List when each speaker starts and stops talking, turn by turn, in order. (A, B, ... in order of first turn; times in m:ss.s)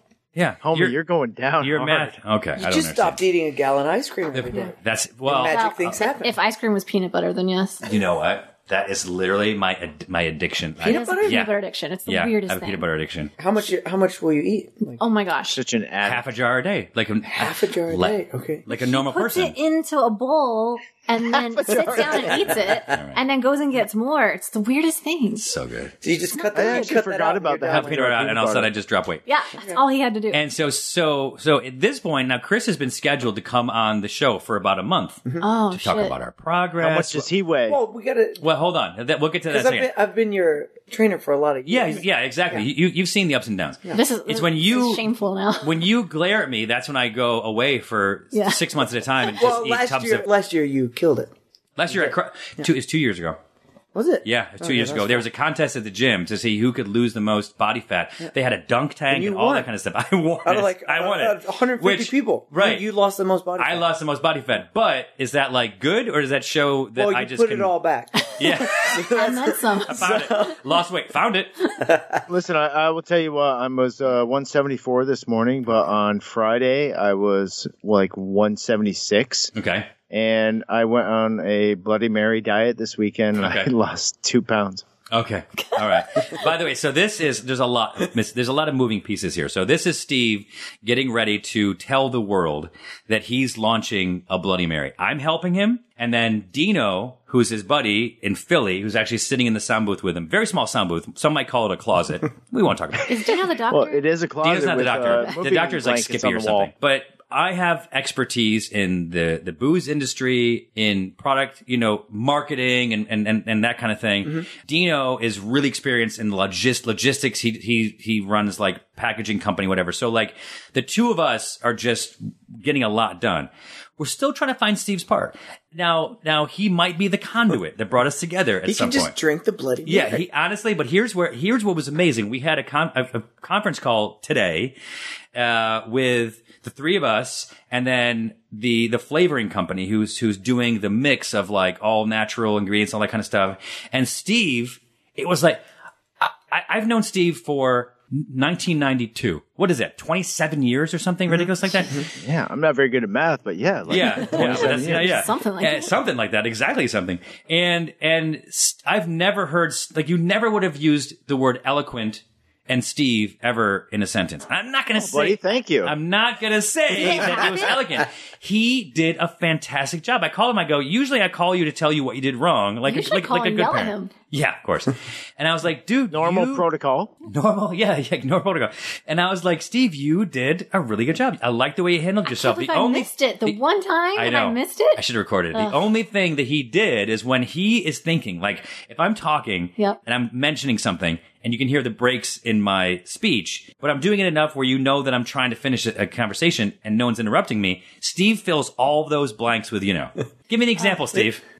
0:00.3-0:01.0 A
0:00.6-0:02.2 B
0:01.6-0:03.2 A
0:02.6-0:06.3 C
0:04.3-0:05.9 A
0:05.5-0:07.8 D
0:07.8-0:11.5 A
0:10.8-0:11.4 C
0:10.8-0:12.8 D
0:12.1-0:13.3 A
0:13.4-0:15.0 C
0:15.0-0:15.6 D
0:15.5-0:16.3 B
0:16.0-0:19.6 A
0:17.2-0:18.6 C
0:18.7-0:25.5 D
0:21.3-0:22.8 C
0:22.9-0:23.2 A
0:25.4-0:25.9 A
0:26.0-0:28.2 C
0:26.3-0:27.0 D
0:26.5-0:28.7 B
0:27.7-0:29.2 A
0:29.3-0:30.4 D
0:29.6-0:29.8 C
0:30.3-0:37.3 A
0:35.4-0:36.1 D
0:36.8-0:37.8 B
0:37.7-0:38.5 C
0:38.4-0:39.9 A
0:39.5-0:42.6 C
0:41.6-0:45.0 A
0:43.9-0:45.8 D
0:45.6-0:50.3 A
0:48.3-0:49.3 D
0:49.4-0:51.3 C
0:51.8-0:53.4 A
0:51.9-0:52.7 C
0:53.9-0:55.3 C
0:54.2-1:02.8 A
0:59.1-0:59.7 C
1:00.4-1:03.9 C
1:03.6-1:07.7 A
1:07.0-1:10.6 C
1:08.3-1:09.1 A
1:09.1-1:10.1 D
1:09.8-1:11.5 A
1:11.8-1:12.2 C
1:12.3-1:19.5 B
1:19.5-1:19.9 A
1:20.1-1:24.8 B
1:23.4-1:23.7 A
1:25.1-1:43.1 A
1:43.1-1:44.1 D
1:43.7-1:46.7 B
1:44.4-2:09.1 A
2:08.6-2:10.2 C
2:09.8-2:14.8 A
2:15.3-2:25.6 A
2:26.2-2:32.0 A
2:32.2-2:35.1 B
2:33.9-2:56.6 A
2:34.4-2:35.9 D
2:45.0-2:45.9 B
2:47.0-2:47.7 D
2:52.9-2:54.1 D
2:56.1-2:57.1 B
2:57.2-3:03.6 A
3:02.2-3:05.0 D
3:04.1-3:21.4 A